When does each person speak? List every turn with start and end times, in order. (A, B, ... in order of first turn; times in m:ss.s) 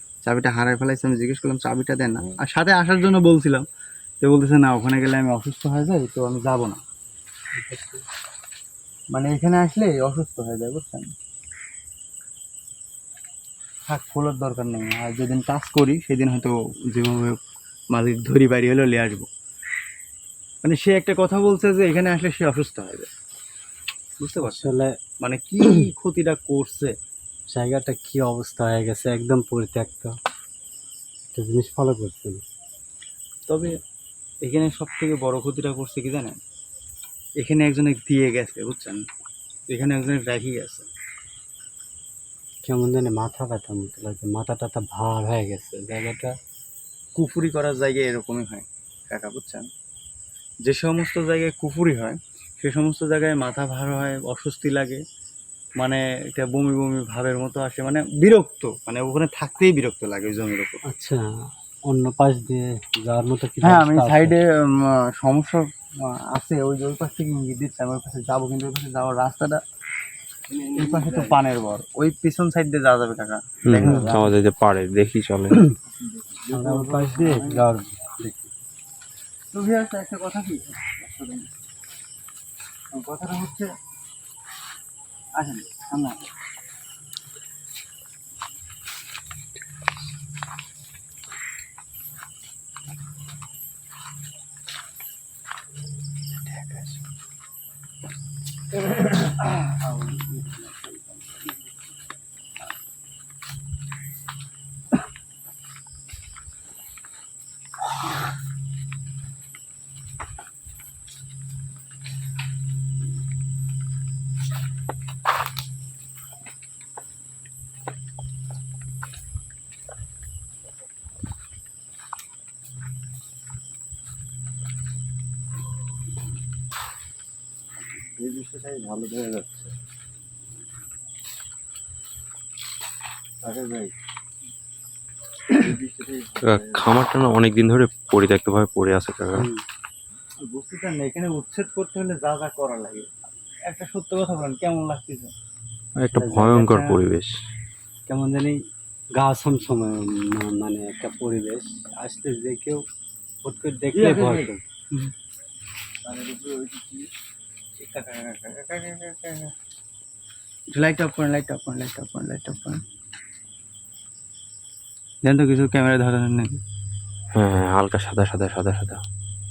0:00.2-0:03.6 A
0:04.2-0:06.8 A
0:07.6-0:08.0 B
0:09.1-0:11.1 A
0:13.9-0:17.4 A
0:17.9-0:19.3 A
0:20.6-0:23.1 A
0:24.2-0:26.9 A
0:24.4-0:24.9 B
0:27.5-0:30.2 B
0:31.3-0:32.4 B
0:33.5-0:33.7 A
0:34.4-0:36.4 A
0:37.4-0:39.0 A
0:39.7-0:40.9 A
0:42.6-0:46.3 B
0:47.2-0:49.6 A
0:50.6-0:55.0 A
0:55.8-1:00.8 A
1:00.8-1:04.4 B
1:03.6-1:09.6 A
1:10.5-1:11.4 B
1:10.7-1:14.2 A
1:13.7-1:15.6 C
1:13.8-1:14.3 B
1:15.9-1:17.6 A
1:16.5-1:18.5 B
1:19.5-1:21.5 A
1:22.9-1:23.7 A
1:25.4-1:26.3 A
1:36.5-1:36.9 A
1:38.9-1:41.5 A
2:08.3-2:09.4 A
2:08.3-2:09.4 B
2:13.4-2:13.9 A
2:15.5-2:16.4 A
2:16.4-2:19.5 C
2:19.4-2:19.6 B
2:20.4-2:23.1 A
2:23.7-2:25.3 A
2:26.0-2:27.3 C
2:26.1-2:26.6 B
2:26.4-2:27.0 A
2:28.1-2:28.6 B
2:29.2-2:32.8 B
2:33.4-2:34.6 B
2:33.9-2:35.1 A
2:36.0-2:37.1 A
2:37.8-2:39.5 A
2:40.7-2:42.8 A
2:45.2-2:46.6 A
2:47.4-2:49.0 C